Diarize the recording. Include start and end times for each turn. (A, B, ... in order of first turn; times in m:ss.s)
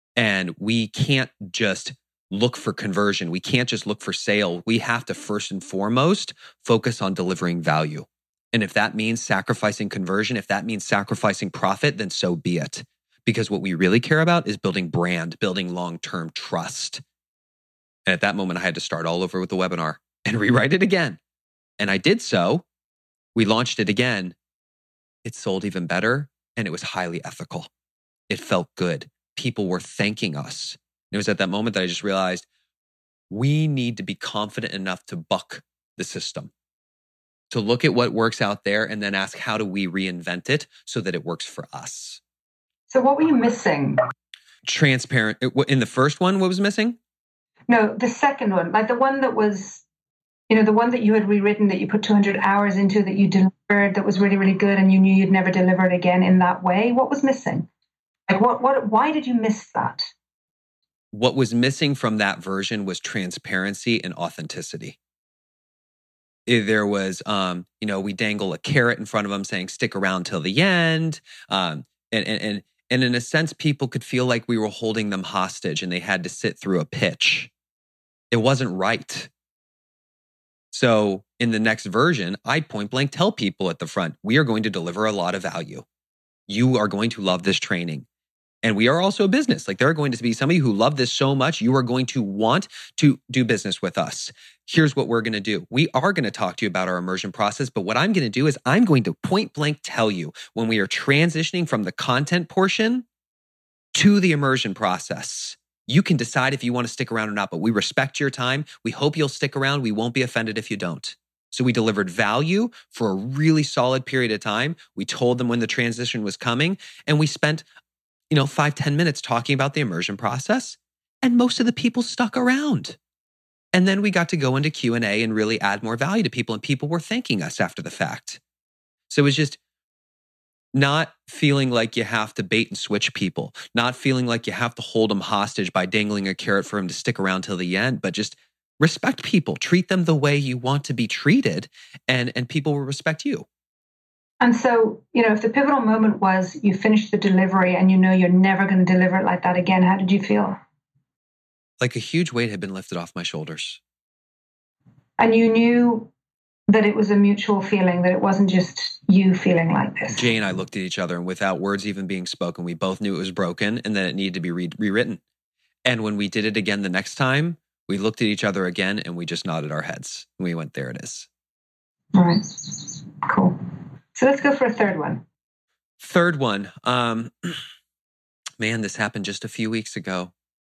0:00.2-0:17.0 A
0:18.0-0:21.2 A
0:21.8-0:22.6 A
0:23.3-0:24.4 A
0:25.2-0:27.7 A
0:28.3-0:32.5 A
0:33.3-0:36.5 A
0:37.5-0:42.2 A
0:42.9-0:44.0 B
0:44.6-0:47.0 A
0:47.7-0:49.8 B
0:50.5-0:57.7 B
0:58.3-1:00.1 B
1:01.1-1:05.0 A
1:06.5-1:17.5 A
1:18.3-1:19.3 A
1:20.7-1:25.8 A
1:26.5-1:28.0 A
1:28.6-1:43.0 A
1:43.9-1:57.6 A
1:58.3-2:03.0 A
2:03.7-2:08.4 A
2:09.1-2:09.6 A
2:10.7-2:23.4 A
2:24.4-2:30.6 B
2:31.8-2:33.8 A
2:35.2-2:36.1 B
2:36.7-2:40.3 B
2:40.1-2:45.2 A
2:45.8-2:51.3 A
2:52.1-2:53.6 B
2:54.1-2:55.2 B
2:56.0-2:57.6 A
2:58.6-3:00.3 A